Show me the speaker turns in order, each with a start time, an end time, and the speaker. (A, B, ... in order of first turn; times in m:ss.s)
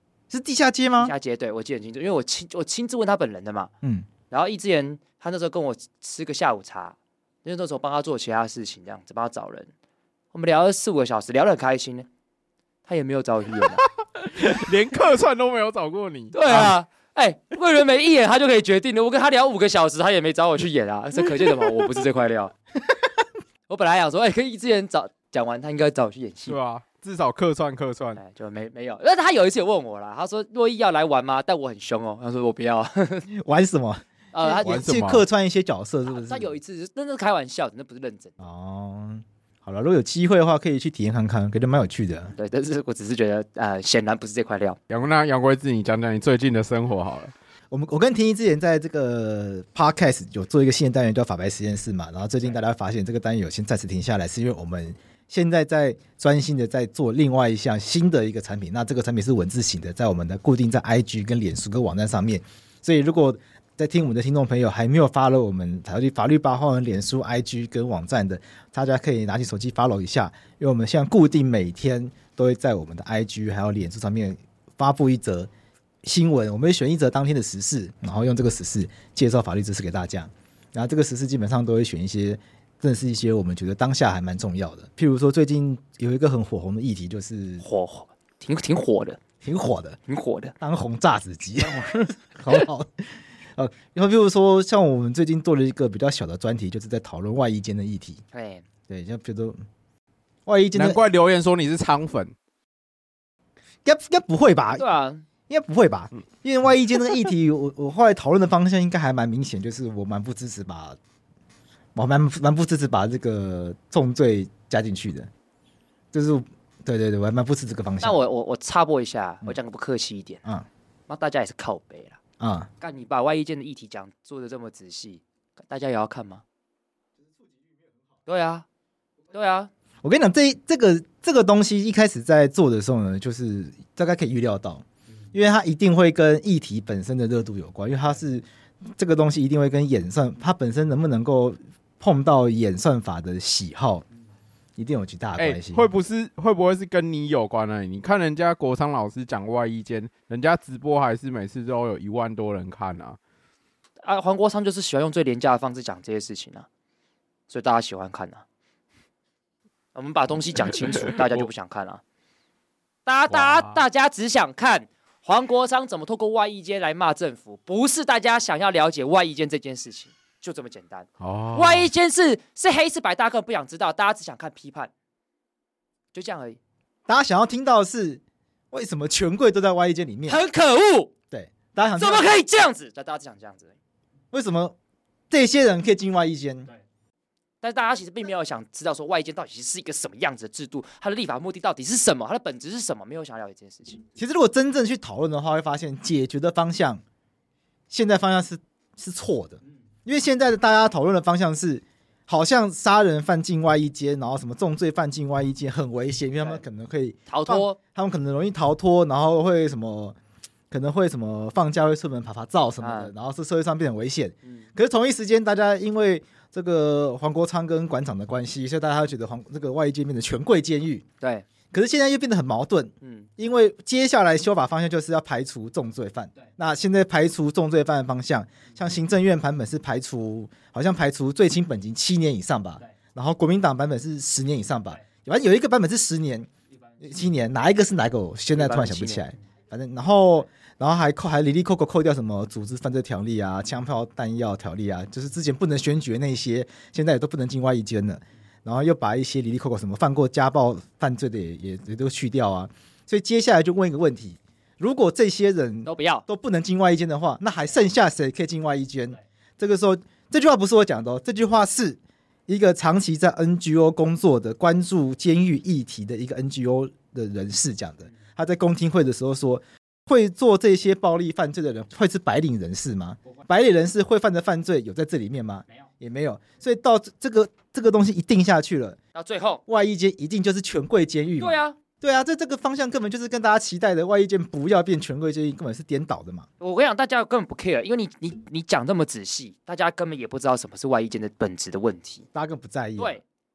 0:00.3-0:01.1 A
0:01.0-0:03.7 B
0:04.3-0:09.7 B
0:10.3-0:12.1 B
0:12.9-0:13.8 B
0:13.8-0:16.7 C
0:16.3-0:22.5 B
0:16.5-0:16.8 A
0:23.7-0:26.6 B
0:26.5-0:28.2 C
0:28.2-0:33.3 B
0:33.3-0:36.6 A
0:34.3-0:34.8 B
0:34.6-0:35.3 C
0:36.1-0:38.3 B
0:38.4-0:42.3 A
0:42.4-0:44.8 B
0:44.9-0:47.3 C
0:47.7-1:15.5 A
1:16.0-1:27.6 A
1:27.6-1:29.2 B
1:29.4-1:30.0 A
1:30.1-1:30.5 B
1:30.6-1:38.2 A
1:31.7-1:32.0 B
1:38.3-1:38.6 B
1:38.9-1:39.6 A
1:40.5-1:41.1 A
1:40.8-1:42.3 C
1:43.8-1:44.8 A
1:44.8-1:45.2 B
1:45.5-1:51.0 A
1:52.0-1:55.3 A
1:56.1-1:58.2 A
1:58.0-2:00.4 B
2:01.1-2:02.2 B
2:02.4-2:02.7 A
2:02.8-2:06.4 B
2:08.3-2:08.7 B
2:09.3-2:09.7 B
2:10.0-2:18.4 A
2:19.0-2:24.0 A
2:24.8-2:25.9 A
2:25.4-2:33.2 C
2:34.0-2:36.7 B
2:37.5-2:38.4 B
2:40.0-2:42.0 B
2:40.7-2:41.5 C
2:43.1-2:54.9 B
2:43.3-2:43.8 C
2:51.2-2:51.9 C
2:56.1-2:56.6 B
2:57.1-2:58.2 A
2:58.7-3:00.4 A
3:00.3-3:01.1 B
3:01.3-3:02.3 A
3:02.0-3:03.8 B
3:04.3-3:04.8 A
3:05.3-3:06.7 A
3:07.6-3:14.0 B
3:14.2-3:17.0 A
3:17.9-3:30.2 A
3:27.3-3:27.8 B
3:30.7-3:41.0 A
3:32.8-3:33.1 B
3:41.2-3:41.5 B
3:41.7-3:56.5 A
3:43.0-3:43.3 B
3:57.0-4:39.0 A
3:58.5-3:59.4 B
4:15.9-4:16.2 B
4:39.2-4:39.6 B
4:39.7-4:46.5 A
4:41.4-4:41.8 B
4:46.6-4:52.3 B
4:52.3-4:53.2 A
4:53.0-4:53.2 B